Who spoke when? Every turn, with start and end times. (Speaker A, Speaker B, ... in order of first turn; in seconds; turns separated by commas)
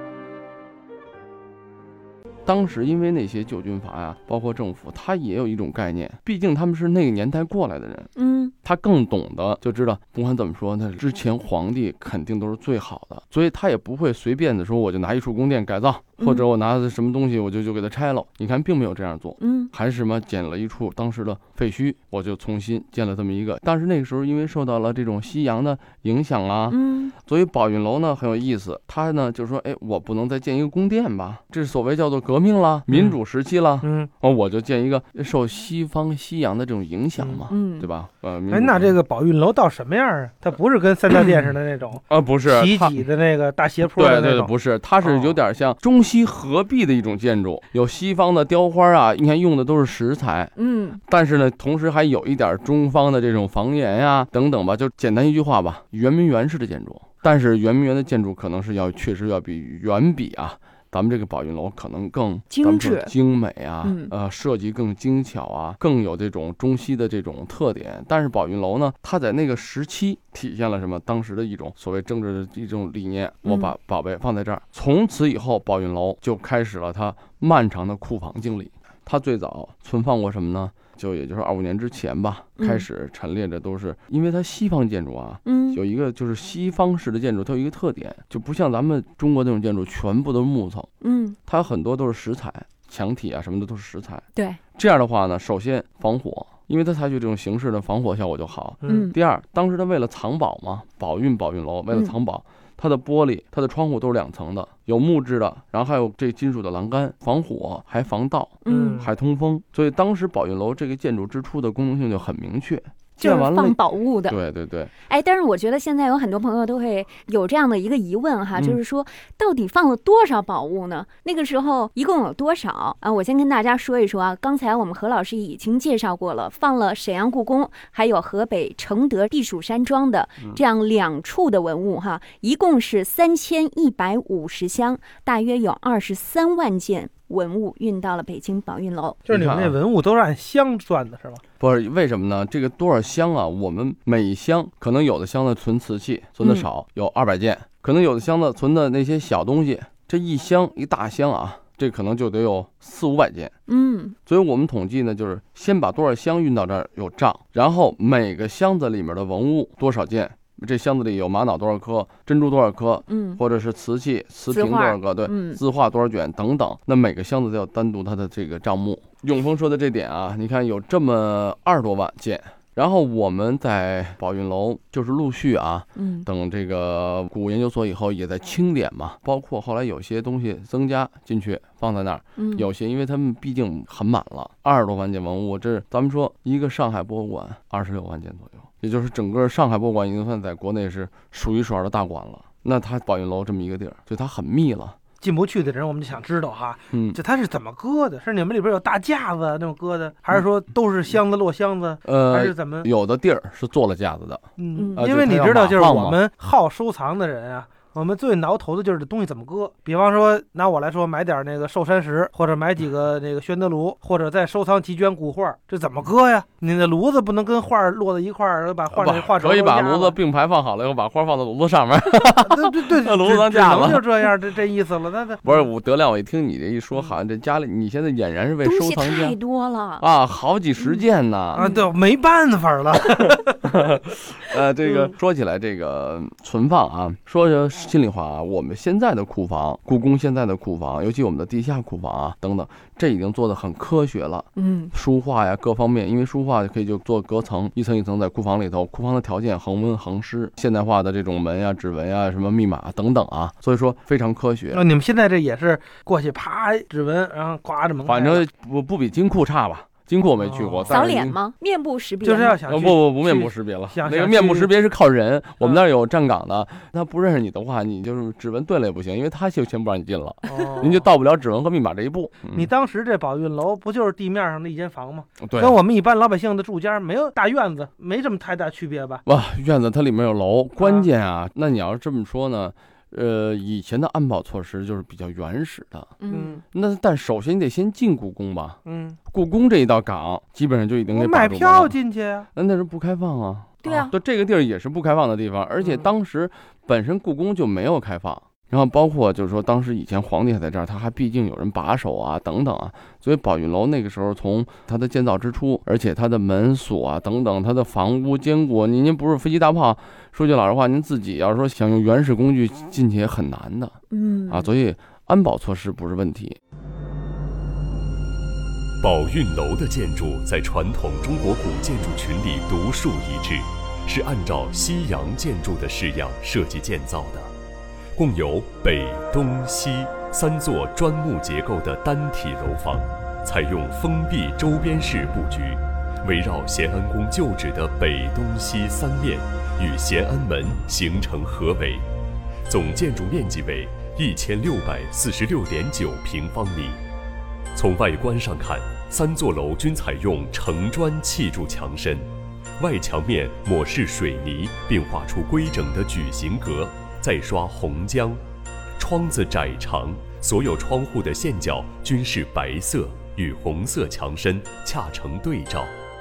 Speaker A: 2.5-8.1, Speaker B: 8.2-8.5, Speaker A: 8.6-38.9, Speaker B: 16.2-16.4, Speaker B: 19.4-19.7, Speaker B: 26.7-27.1, Speaker C: 32.9-33.1, Speaker C: 33.8-34.1, Speaker B: 37.5-37.9, Speaker C: 38.5-45.3, Speaker A: 42.1-43.0, Speaker A: 44.0-50.5, Speaker B: 50.6-51.0, Speaker A: 51.1-90.9, Speaker B: 62.5-63.1, Speaker B: 63.8-64.1, Speaker B: 73.4-73.7, Speaker B: 82.6-82.8, Speaker B: 85.4-85.8, Speaker B: 91.0-91.4, Speaker A: 91.5-114.9, Speaker B: 94.3-94.6, Speaker B: 98.8-99.1, Speaker B: 108.6-109.1, Speaker C: 108.7-109.1, Speaker B: 113.2-114.4, Speaker B: 115.0-139.2, Speaker A: 118.5-118.8, Speaker C: 139.3-141.4, Speaker A: 139.3-139.7, Speaker A: 141.6-153.5, Speaker B: 153.7-154.2, Speaker A: 154.2-195.0, Speaker B: 163.1-163.4, Speaker B: 164.5-165.6, Speaker B: 175.9-176.3, Speaker B: 182.4-182.7, Speaker C: 195.2-202.9, Speaker A: 196.9-197.2, Speaker A: 202.0-206.2, Speaker C: 204.6-220.2, Speaker B: 204.7-205.1, Speaker A: 218.9-224.0, Speaker C: 222.4-225.7, Speaker A: 225.4-229.4, Speaker B: 228.6-230.1, Speaker A: 230.0-231.7, Speaker B: 231.5-231.9, Speaker C: 231.6-233.6, Speaker A: 233.7-254.8, Speaker B: 244.6-244.9, Speaker C: 254.7-258.4, Speaker A: 258.1-261.4, Speaker C: 260.4-260.9, Speaker B: 260.9-262.6, Speaker C: 262.2-264.7, Speaker A: 262.6-272.7, Speaker C: 270.5-271.0, Speaker C: 272.5-279.2, Speaker A: 275.4-275.8, Speaker A: 279.2-286.1, Speaker C: 280.8-281.1, Speaker B: 286.2-286.6, Speaker C: 286.3-286.6, Speaker A: 286.7-292.0, Speaker C: 288.9-289.2, Speaker C: 291.1-292.5, Speaker A: 292.5-316.6, Speaker B: 293.8-294.1, Speaker B: 314.1-314.7, Speaker D: 319.0-327.5, Speaker D: 328.1-342.0, Speaker D: 342.7-347.0, Speaker D: 347.7-352.3, Speaker D: 352.8-358.4, Speaker D: 359.0-365.9